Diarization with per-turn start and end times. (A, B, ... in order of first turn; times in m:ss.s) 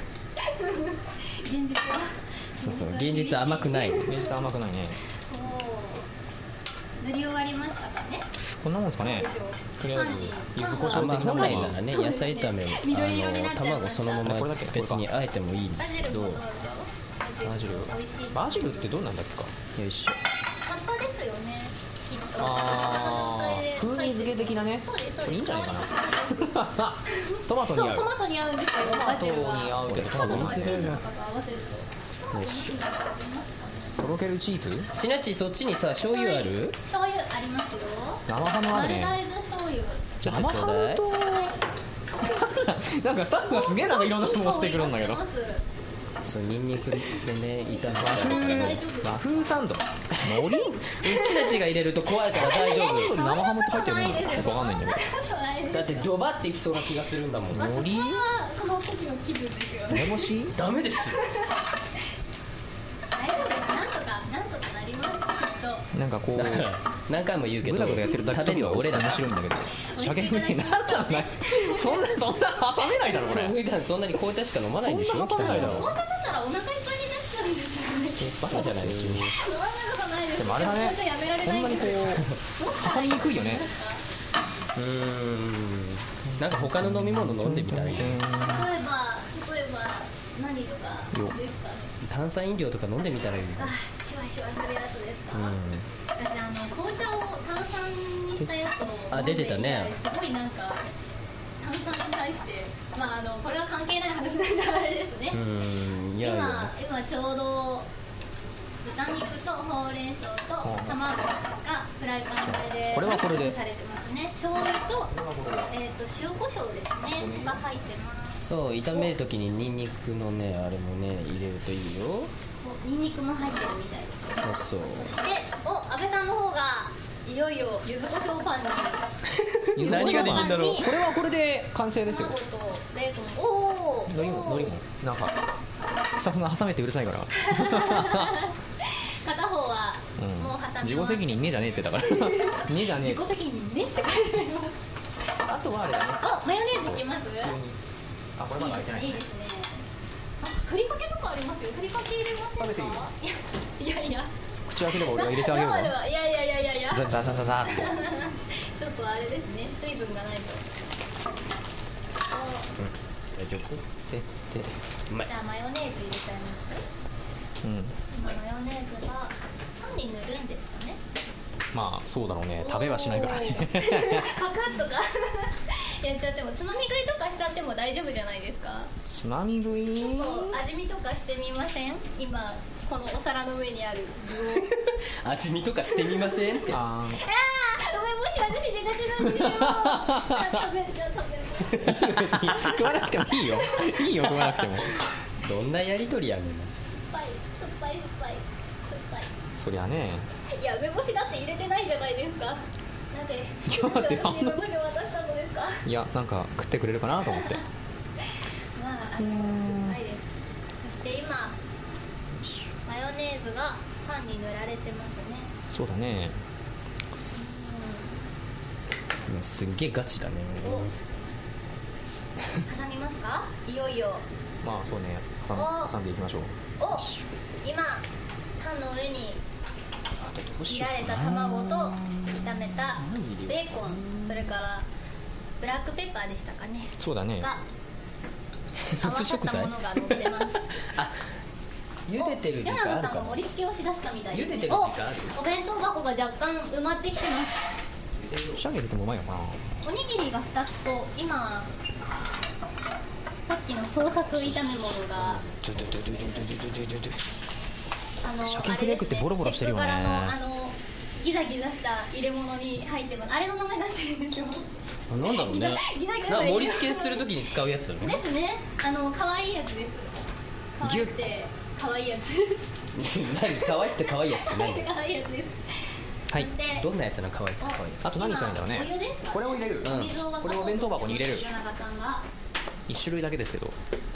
0:00.4-0:04.4 A
0:02.6-0:04.1 B
0:04.0-0:05.0 C
0:05.3-0:06.1 A
0:07.0-0:08.3 A
0:08.6-0:11.8 C
0:09.0-0:14.3 A
0:10.9-0:16.4 B
0:14.2-0:15.0 C
0:15.8-0:18.9 A
0:17.4-0:20.2 C
0:20.6-0:34.0 A
0:22.4-0:28.1 C
0:28.8-0:31.0 C
0:29.8-0:31.0 B
0:32.4-0:32.7 B
0:34.0-0:34.9 C
0:35.0-0:36.8 B
0:36.1-0:40.1 A
0:38.3-0:39.2 C
0:40.2-0:41.0 B
0:40.2-0:41.5 C
0:41.2-0:41.6 A
0:42.2-0:45.2 C
0:43.4-0:45.6 A
0:46.2-0:48.8 B
0:47.7-0:49.6 A
0:48.0-0:50.8 C
0:50.1-0:53.2 B
0:51.0-0:51.6 A
0:52.3-0:56.1 A
0:52.5-0:55.0 C
0:55.7-0:57.7 B
0:57.5-0:58.3 C
0:57.5-1:00.3 A
0:59.9-1:00.5 C
1:00.5-1:01.2 B
1:01.1-1:01.6 A
1:03.1-1:05.9 A
1:05.9-1:06.7 C
1:06.3-1:09.3 B
1:07.6-1:13.6 C
1:09.8-1:12.0 A
1:13.2-1:15.9 B
1:14.8-1:15.9 C
1:15.2-1:18.6 A
1:18.2-1:19.3 C
1:18.4-1:19.4 B
1:19.3-1:24.0 A
1:20.4-1:23.7 C
1:22.1-1:22.4 B
1:24.7-1:28.2 B
1:26.3-1:28.7 C
1:28.4-1:31.9 A
1:32.0-1:33.7 B
1:33.6-1:35.6 A
1:35.3-1:35.8 B
1:36.2-1:40.9 A
1:39.1-1:39.9 B
1:41.6-1:45.4 A
1:45.3-1:46.7 B
1:46.2-1:47.9 A
1:48.8-1:55.1 A
1:50.6-1:51.0 C
1:52.4-1:53.6 C
1:55.1-1:55.7 C
1:55.7-1:59.1 A
1:57.1-1:57.6 C
1:58.4-2:02.3 B
2:02.6-2:09.1 A
2:04.4-2:05.1 B
2:09.3-2:10.9 B
2:09.8-2:12.4 C
2:09.8-2:10.9 A
2:12.0-2:14.7 A
2:14.1-2:15.4 C
2:16.1-2:18.4 C
2:17.4-2:24.8 A
2:20.2-2:23.2 C
2:25.4-2:27.8 C
2:26.2-2:27.6 A
2:28.4-2:29.2 C
2:28.6-2:29.8 A
2:30.4-2:34.3 A
2:32.6-2:33.1 C
2:34.6-2:36.0 C
2:34.9-2:40.7 A
2:36.9-2:37.9 C
2:42.3-2:42.7 A
2:42.8-2:43.8 B
2:44.1-2:44.8 C
2:45.2-2:46.8 A
2:47.6-2:48.0 C
2:48.1-2:51.0 A
2:51.7-2:54.3 C
2:52.6-2:58.9 A
2:59.0-3:00.6 C
3:00.0-3:04.8 A
3:04.6-3:06.8 B
3:06.3-3:11.9 A
3:06.7-3:07.2 C
3:09.2-3:10.7 C
3:11.6-3:13.2 B
3:11.8-3:15.0 C
3:14.2-3:14.8 B
3:15.4-3:16.7 B
3:16.9-3:19.3 A
3:19.6-3:20.3 C
3:20.5-3:25.8 A
3:23.6-3:24.6 C
3:25.8-3:27.6 C
3:28.2-3:31.6 A
3:29.2-3:30.0 C
3:32.3-3:32.7 C
3:32.8-3:35.5 A
3:35.7-3:36.4 C
3:37.3-3:38.2 A
3:39.3-3:40.9 B
3:40.6-3:40.9 A
3:42.6-3:44.2 A
3:44.6-3:46.7 C
3:45.5-3:45.9 A
3:46.8-3:47.1 A
3:47.6-3:48.0 A
3:48.6-3:49.4 A
3:50.2-3:51.2 C
3:50.6-3:54.9 A
3:51.0-3:54.5 B
3:55.6-3:57.6 A
3:57.0-3:57.5 C
3:58.8-4:01.2 B
3:59.0-4:00.7 A
4:02.1-4:03.4 B
4:02.2-4:07.6 A
4:04.3-4:05.4 B
4:08.2-4:08.6 B
4:08.5-4:09.6 C
4:09.8-4:11.7 A
4:13.5-4:15.4 A
4:14.3-4:17.2 C
4:15.4-4:16.7 B
4:18.2-4:27.3 A
4:18.4-4:20.4 C
4:25.1-4:28.2 B
4:28.0-4:30.1 A
4:30.7-4:32.7 A
4:30.8-4:31.2 C
4:32.9-4:34.9 B
4:33.6-4:36.9 A
4:36.8-4:38.0 B
4:37.6-4:42.2 A
4:38.0-4:41.5 C
4:39.8-4:40.1 B
4:42.9-4:43.8 C